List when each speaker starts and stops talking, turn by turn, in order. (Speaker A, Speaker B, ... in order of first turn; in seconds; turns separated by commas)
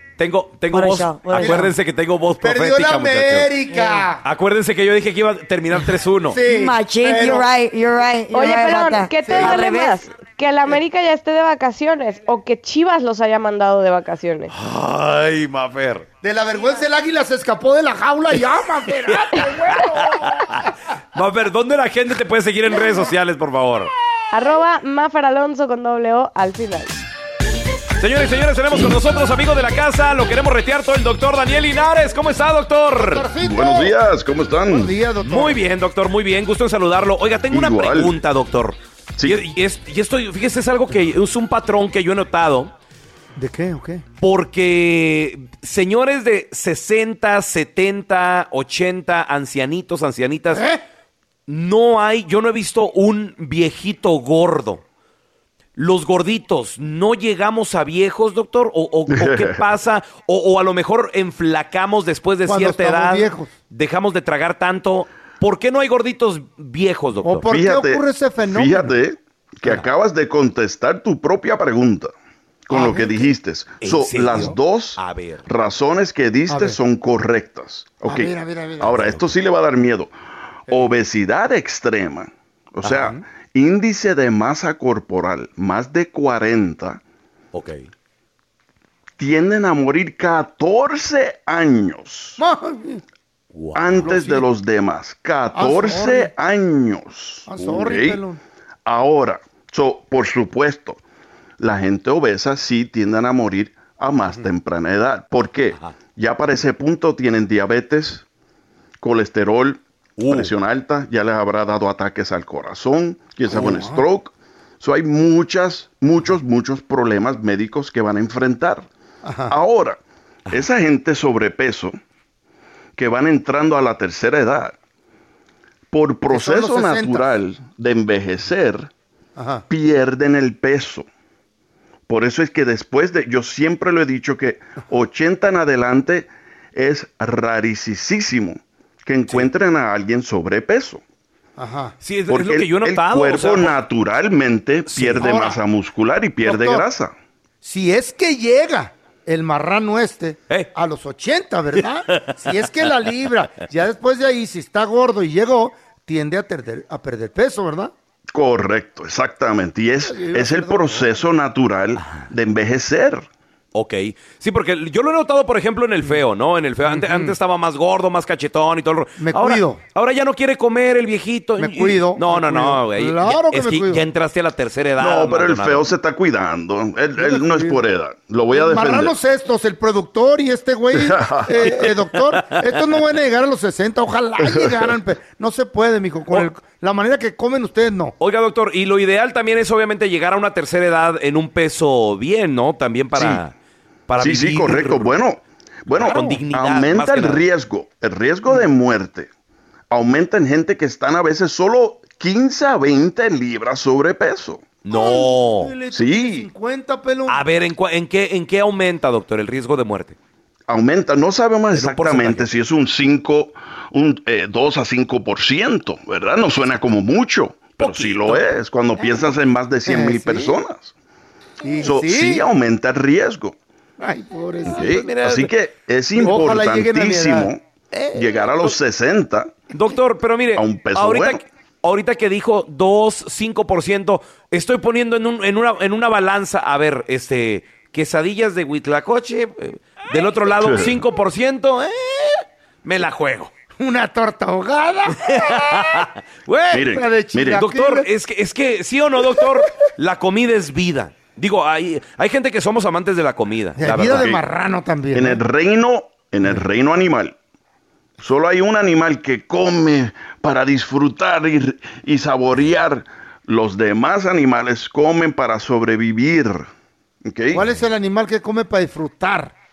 Speaker A: 0.2-3.5, Speaker B: 0.7-1.7, Speaker C: 1.3-1.7, Speaker C: 2.4-4.2, Speaker B: 3.7-4.0, Speaker A: 4.2-6.4, Speaker C: 6.3-7.5, Speaker B: 6.5-10.1, Speaker D: 8.3-14.5, Speaker C: 9.2-9.6, Speaker A: 14.5-16.1, Speaker C: 16.2-20.5, Speaker A: 19.7-20.6, Speaker A: 21.1-23.9, Speaker D: 24.3-27.0, Speaker A: 28.0-33.3, Speaker C: 33.0-33.9, Speaker E: 33.4-34.9, Speaker C: 34.7-35.6, Speaker A: 35.2-42.7, Speaker E: 37.5-38.1, Speaker E: 39.2-39.4, Speaker C: 43.4-44.0, Speaker A: 44.2-50.6, Speaker C: 50.5-50.8, Speaker A: 51.5-54.8, Speaker A: 55.8-67.5, Speaker E: 59.1-59.6, Speaker C: 62.5-63.5, Speaker C: 67.2-68.9, Speaker E: 67.5-72.1, Speaker E: 72.7-80.1, Speaker C: 72.7-73.3, Speaker A: 73.8-75.5, Speaker C: 76.5-76.8, Speaker C: 78.0-79.1, Speaker A: 79.0-79.3, Speaker E: 80.7-87.0, Speaker C: 82.9-83.2, Speaker A: 87.5-87.8, Speaker E: 89.2-92.4, Speaker C: 92.4-93.0, Speaker A: 93.5-94.1, Speaker E: 93.8-98.2, Speaker C: 94.0-94.5, Speaker C: 95.5-96.3, Speaker C: 97.5-98.4, Speaker E: 98.9-101.0, Speaker E: 101.6-108.2, Speaker E: 109.0-118.9, Speaker A: 110.2-110.5, Speaker C: 113.5-114.1, Speaker C: 119.2-119.5, Speaker E: 119.5-120.0, Speaker E: 120.5-122.0, Speaker E: 123.0-124.8, Speaker E: 125.9-128.9, Speaker C: 126.3-127.3, Speaker C: 129.4-129.7, Speaker E: 129.7-131.1, Speaker E: 132.1-141.0, Speaker C: 141.6-141.9, Speaker A: 142.0-143.8, Speaker E: 142.3-147.1, Speaker A: 144.9-145.3, Speaker C: 145.2-145.6, Speaker C: 146.4-146.9, Speaker C: 147.6-157.9, Speaker E: 158.3-163.3, Speaker C: 160.0-161.2, Speaker A: 162.0-162.3, Speaker A: 163.7-175.8, Speaker C: 166.8-167.4, Speaker C: 169.2-169.8, Speaker C: 171.6-174.0, Speaker E: 175.0-179.1, Speaker C: 177.2-177.8, Speaker C: 178.5-188.1, Speaker E: 180.9-181.9, Speaker E: 184.4-184.9, Speaker A: 188.2-193.5, Speaker E: 193.2-193.4, Speaker A: 194.1-195.1, Speaker E: 194.2-199.3, Speaker A: 195.9-197.4, Speaker C: 196.0-196.4, Speaker E: 199.9-204.8, Speaker A: 204.8-205.8, Speaker C: 204.9-207.4, Speaker E: 205.9-206.5, Speaker A: 207.3-210.2, Speaker E: 210.7-220.9, Speaker A: 211.7-212.5, Speaker A: 217.8-218.5, Speaker C: 219.9-220.6, Speaker C: 221.6-222.4, Speaker E: 221.8-223.6, Speaker C: 224.0-225.0, Speaker E: 224.7-227.6, Speaker A: 224.8-225.5, Speaker C: 226.2-228.5, Speaker E: 228.1-229.6, Speaker A: 229.7-243.5, Speaker E: 230.6-231.4, Speaker E: 240.6-241.0, Speaker C: 243.8-245.8, Speaker A: 245.3-246.8, Speaker E: 246.7-247.6, Speaker C: 246.7-248.1, Speaker A: 247.6-254.3, Speaker C: 253.8-255.4, Speaker E: 254.2-254.4, Speaker E: 255.1-257.4, Speaker E: 258.2-266.7, Speaker E: 267.2-267.6, Speaker C: 267.5-269.5